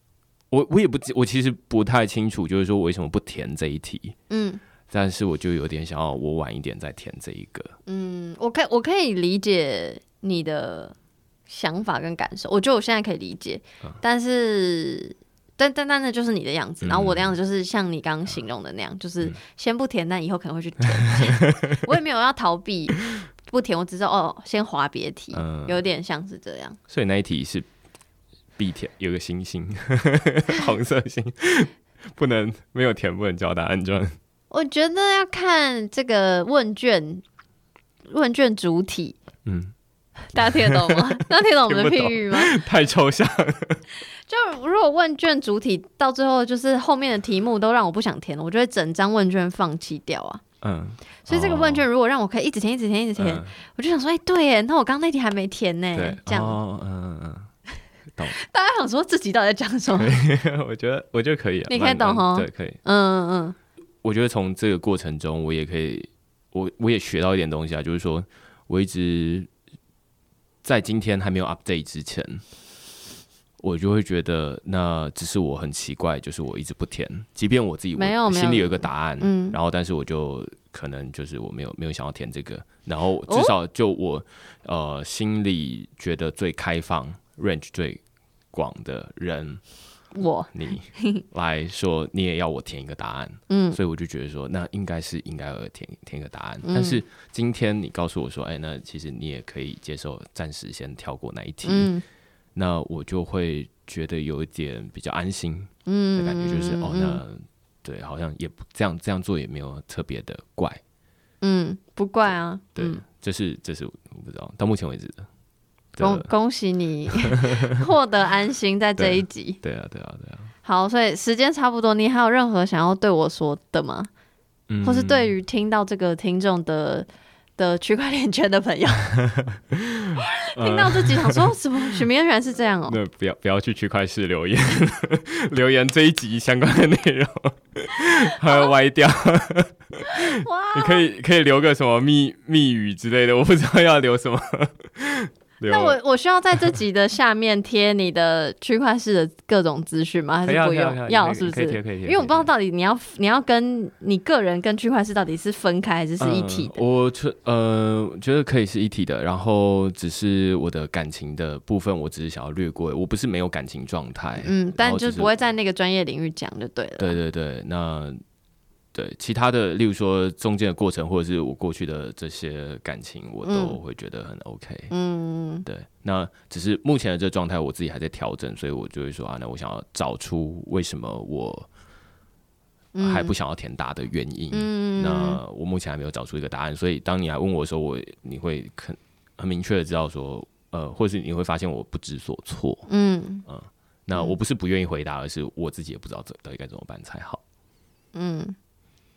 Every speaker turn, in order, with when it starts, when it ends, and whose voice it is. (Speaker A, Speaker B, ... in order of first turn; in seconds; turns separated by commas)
Speaker A: 0.5-4.2, Speaker B: 4.3-4.6, Speaker A: 4.9-7.7, Speaker B: 7.9-10.9, Speaker B: 11.5-26.8, Speaker A: 16.8-17.3, Speaker A: 21.1-21.8, Speaker A: 25.3-25.8, Speaker A: 26.9-27.7, Speaker A: 28.6-34.2, Speaker B: 34.5-37.2, Speaker B: 38.1-39.2, Speaker A: 39.5-39.7, Speaker B: 40.3-42.5, Speaker A: 40.4-41.0, Speaker A: 41.7-43.8, Speaker B: 44.3-50.4, Speaker A: 50.6-51.9, Speaker B: 51.3-56.6, Speaker A: 53.2-53.5, Speaker A: 56.0-57.5, Speaker B: 58.4-60.2, Speaker A: 60.0-62.8, Speaker B: 61.7-63.6, Speaker A: 64.0-69.5, Speaker A: 70.6-72.4, Speaker A: 73.6-88.0, Speaker B: 78.0-79.6, Speaker B: 83.3-83.5, Speaker A: 88.5-89.6, Speaker B: 90.2-91.2, Speaker A: 90.5-101.9, Speaker B: 93.5-93.8, Speaker B: 96.6-97.0, Speaker B: 101.6-102.0, Speaker A: 102.5-110.8, Speaker B: 105.9-107.2, Speaker B: 111.4-113.0, Speaker A: 112.3-115.3, Speaker A: 116.0-116.3, Speaker B: 116.0-119.6, Speaker A: 117.2-117.6, Speaker A: 119.0-120.5, Speaker B: 120.6-124.1, Speaker A: 124.7-125.3, Speaker B: 124.8-127.1, Speaker B: 127.6-129.1, Speaker A: 129.4-131.6, Speaker B: 130.2-133.0, Speaker A: 132.9-146.0, Speaker B: 138.4-138.7, Speaker B: 140.1-141.1, Speaker B: 145.7-156.8, Speaker A: 150.4-152.5, Speaker A: 156.2-165.3, Speaker B: 164.4-167.2, Speaker A: 167.0-168.2, Speaker A: 168.9-174.9, Speaker B: 173.4-173.8, Speaker B: 174.9-175.7, Speaker A: 175.7-181.7, Speaker B: 182.9-183.3, Speaker A: 183.0-192.9, Speaker B: 184.5-185.4, Speaker B: 192.9-193.5, Speaker A: 193.5-197.4, Speaker B: 198.2-198.6